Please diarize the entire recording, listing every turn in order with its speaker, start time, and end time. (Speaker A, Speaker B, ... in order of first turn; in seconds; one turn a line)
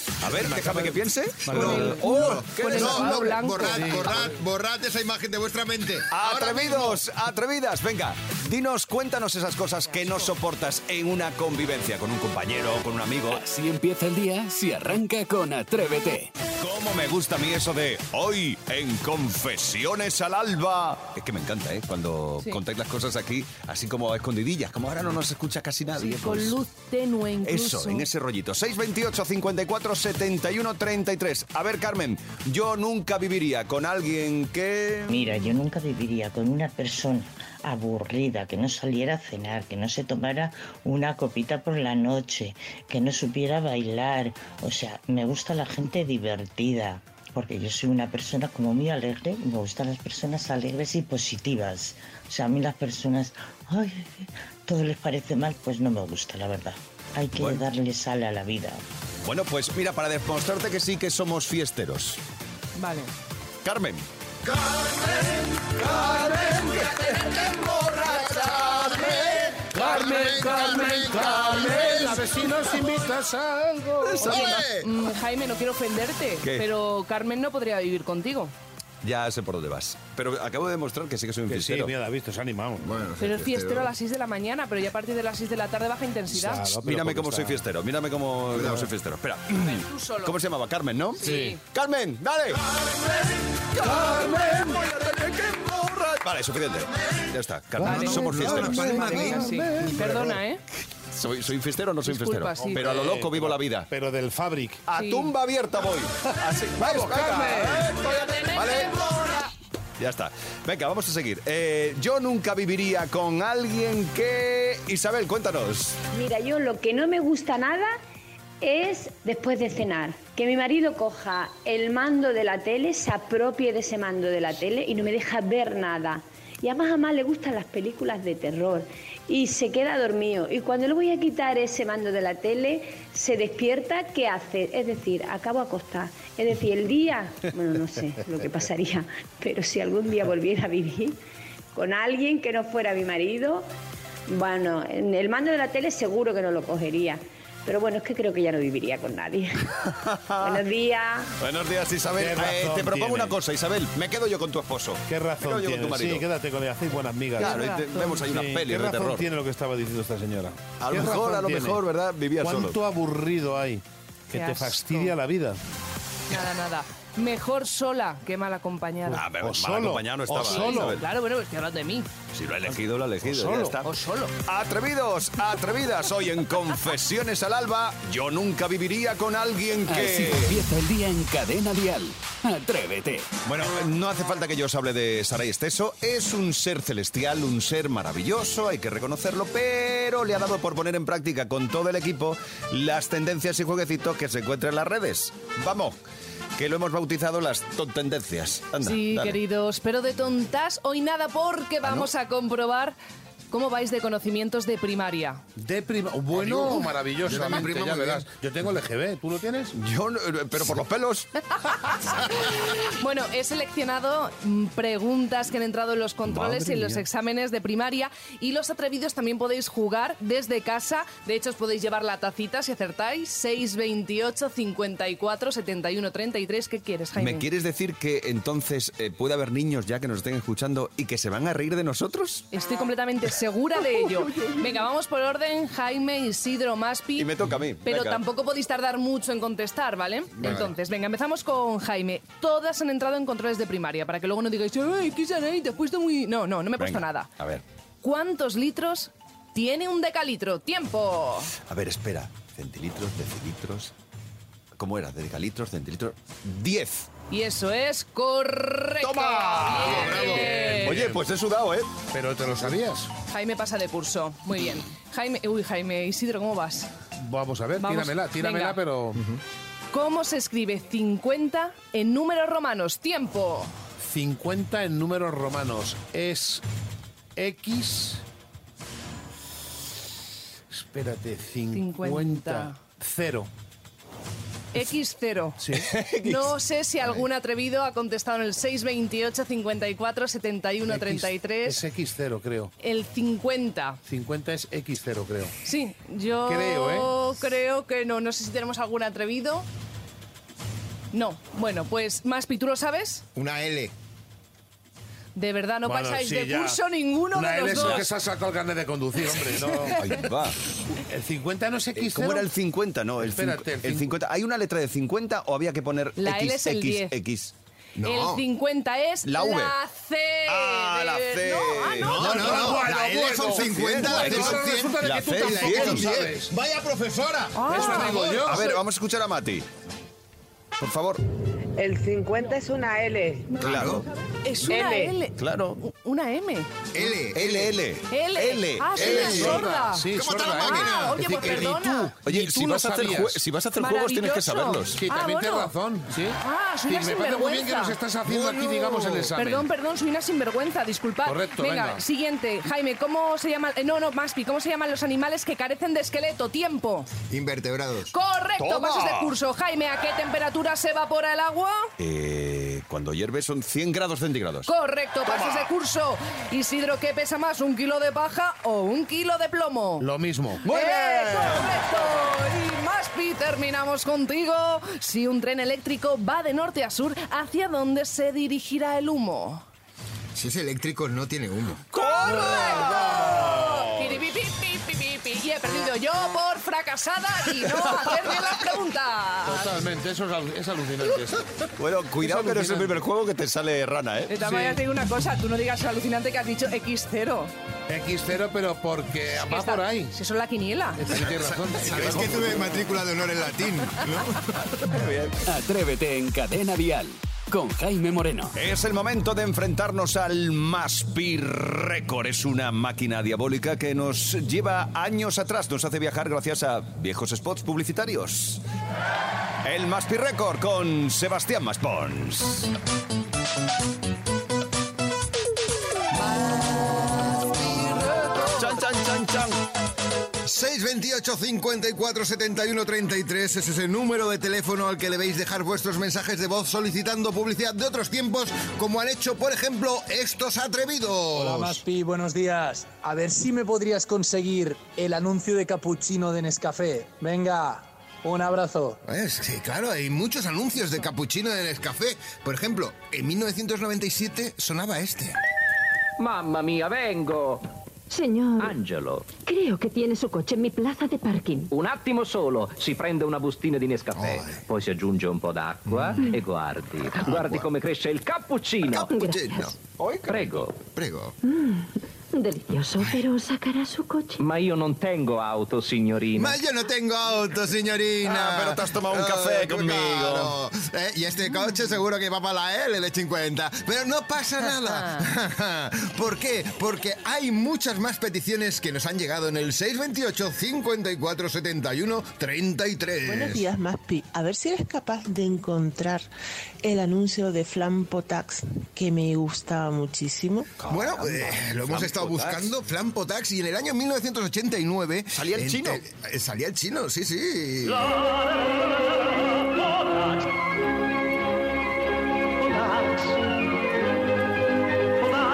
Speaker A: 0.2-3.5
Speaker B: 0.2-2.0
Speaker C: 1.5-7.0
Speaker D: 1.5-4.2
Speaker B: 3.7-4.1
Speaker A: 6.1-13.4
Speaker E: 13.3-16.3
Speaker A: 16.6-26.6
Speaker D: 26.0-28.1
Speaker A: 27.4-35.4
Speaker F: 35.1-58.8
Speaker A: 57.4-57.7
Speaker A: 59.2-62.2
Speaker D: 62.8-63.1
Speaker A: 63.6-64.0
Speaker A: 65.6-68.0
Speaker C: 68.4-72.4
Speaker B: 69.8-74.5
Speaker A: 74.2-74.5
Speaker C: 74.2-74.9
Speaker D: 74.2-78.5
Speaker A: 76.4-76.7
Speaker A: 79.0-81.9
Speaker B: 81.5-82.9
Speaker C: 82.8-83.9
Speaker D: 83.2-86.7
Speaker B: 86.3-87.6
Speaker A: 86.8-99.2
Speaker C: 88.5-88.9
Speaker D: 89.5-90.3
Speaker D: 91.2-91.6
Speaker B: 91.2-91.6
Speaker B: 97.8-100.1
Speaker D: 97.8-100.6
Speaker C: 97.9-100.4
Speaker A: 101.1-103.9
Speaker D: 102.1-102.8
Speaker B: 102.6-104.8
Speaker A: 104.9-109.2
Speaker D: 105.0-105.3
Speaker B: 106.8-107.9
Speaker D: 107.9-109.4
Speaker A: 110.0-116.0
Speaker G: 116.1-118.0
Speaker G: 118.6-141.2
Speaker G: 141.7-143.7
Speaker G: 144.3-149.7
Speaker A: 149.9-150.6
Speaker G: 150.4-151.3
Speaker A: 151.4-156.3
Speaker B: 152.2-153.4
Speaker B: 155.1-161.8
Speaker A: 157.4-159.3
Speaker D: 157.4-158.2
Speaker A: 160.8-162.8
Speaker B: 162.4-165.6
Speaker D: 164.3-165.2
Speaker D: 166.3-169.2
Speaker B: 169.1-171.0
Speaker A: 169.1-171.0
Speaker D: 170.4-172.1
Speaker A: 172.3-173.9
Speaker B: 172.7-173.8
Speaker D: 173.8-174.3
Speaker A: 174.4-180.6
Speaker E: 179.9-183.3
Speaker A: 183.4-196.0
Speaker A: 196.6-199.4
Speaker D: 198.8-203.0
Speaker A: 201.8-202.1
Speaker D: 203.5-205.4
Speaker B: 205.6-209.8
Speaker C: 206.4-206.7
Speaker C: 207.2-208.3
Speaker A: 209.7-211.3
Speaker D: 211.6-227.5
Speaker B: 216.3-216.9
Speaker A: 227.2-232.5
Speaker D: 232.5-237.3
Speaker A: 237.2-238.2
Speaker D: 237.8-247.3
Speaker A: 246.8-247.6
Speaker D: 248.0-251.5
Speaker A: 251.7-253.9
Speaker A: 254.8-257.1
Speaker D: 257.3-261.0
Speaker A: 259.0-262.0
Speaker C: 259.8-260.5
Speaker B: 260.0-261.2
Speaker B: 262.1-263.1
Speaker D: 263.3-266.9
Speaker B: 267.2-269.3
Speaker D: 267.8-268.8
Speaker D: 269.9-273.7
Speaker B: 274.0-276.6
Speaker B: 277.4-278.2
Speaker B: 280.7-283.5
Speaker D: 281.7-282.8
Speaker D: 284.7-285.6
Speaker B: 285.6-285.9
Speaker A: 285.9-286.5
Speaker D: 286.2-291.8
Speaker B: 290.9-292.7
Speaker D: 292.8-294.0
Speaker B: 294.1-295.6
Speaker D: 295.6-299.7
Speaker B: 296.5-297.1
Speaker D: 301.1-303.2
Speaker C: 303.4-303.9
Speaker D: 305.4-308.1
Speaker B: 305.9-306.8
Speaker B: 307.3-310.3
Speaker A: 310.0-310.6
Speaker B: 310.9-312.5
Speaker A: 312.0-317.5
Speaker B: 313.2-314.1
Speaker D: 316.2-317.1
Speaker C: 318.0-318.4
Speaker D: 318.0-322.2
Speaker A: 319.2-319.7
Speaker A: 320.5-322.9
Speaker C: 322.0-328.5
Speaker B: 322.2-326.5
Speaker A: 323.5-326.1
Speaker D: 327.6-328.7
Speaker B: 327.7-328.7
Speaker A: 328.4-329.7
Speaker A: 330.8-331.2
Speaker H: 331.8-333.6
Speaker C: 333.6-334.1
Speaker A: 333.6-334.0
Speaker D: 334.4-336.7
Speaker H: 334.7-335.1
Speaker A: 335.4-335.8
Speaker C: 336.9-337.8
Speaker A: 337.0-339.7
Speaker D: 338.1-342.1
Speaker B: 339.0-343.4
Speaker C: 339.0-341.8
Speaker A: 342.2-345.0
Speaker D: 343.8-345.7
Speaker B: 344.9-349.7
Speaker D: 346.4-348.0
Speaker C: 348.3-349.3
Speaker D: 349.3-357.1
Speaker B: 351.2-352.0
Speaker C: 357.3-358.1
Speaker D: 358.1-361.9
Speaker A: 358.6-359.3
Speaker A: 362.0-364.7
Speaker D: 364.7-370.1
Speaker A: 365.3-365.7
Speaker B: 370.0-370.7
Speaker D: 370.6-379.6
Speaker A: 370.7-371.8
Speaker C: 380.4-381.8
Speaker D: 381.9-389.7
Speaker B: 382.4-383.8
Speaker A: 382.6-383.2
Speaker B: 389.5-391.5
Speaker A: 391.8-394.4
Speaker B: 392.2-393.0
Speaker D: 394.3-397.5
Speaker B: 394.5-394.8
Speaker B: 397.9-400.2
Speaker D: 399.5-401.0
Speaker B: 401.0-402.8
Speaker C: 401.1-404.7
Speaker A: 401.9-402.6
Speaker A: 404.9-405.4
Speaker E: 405.5-408.6
Speaker A: 408.6-418.6
Speaker A: 419.6-422.7
Speaker D: 426.3-428.6
Speaker A: 428.5-429.6
Speaker C: 430.4-441.8
Speaker I: 441.4-449.0
Speaker C: 449.1-455.4
Speaker J: 456.2-457.7
Speaker K: 458.1-458.8
Speaker J: 458.6-459.3
Speaker K: 459.3-461.7
Speaker J: 461.7-469.1
Speaker C: 464.1-464.6
Speaker C: 465.9-466.3
Speaker C: 467.2-467.7
Speaker C: 468.9-469.7
Speaker K: 469.1-469.7
Speaker J: 470.3-470.8
Speaker C: 470.9-471.4
Speaker K: 471.4-474.4
Speaker J: 474.4-476.6
Speaker C: 476.4-493.7
Speaker A: 478.2-480.6
Speaker D: 484.9-485.3
Speaker L: 493.3-496.3
Speaker L: 496.8-500.7
Speaker A: 500.8-502.7
Speaker C: 500.9-508.1
Speaker A: 505.4-506.0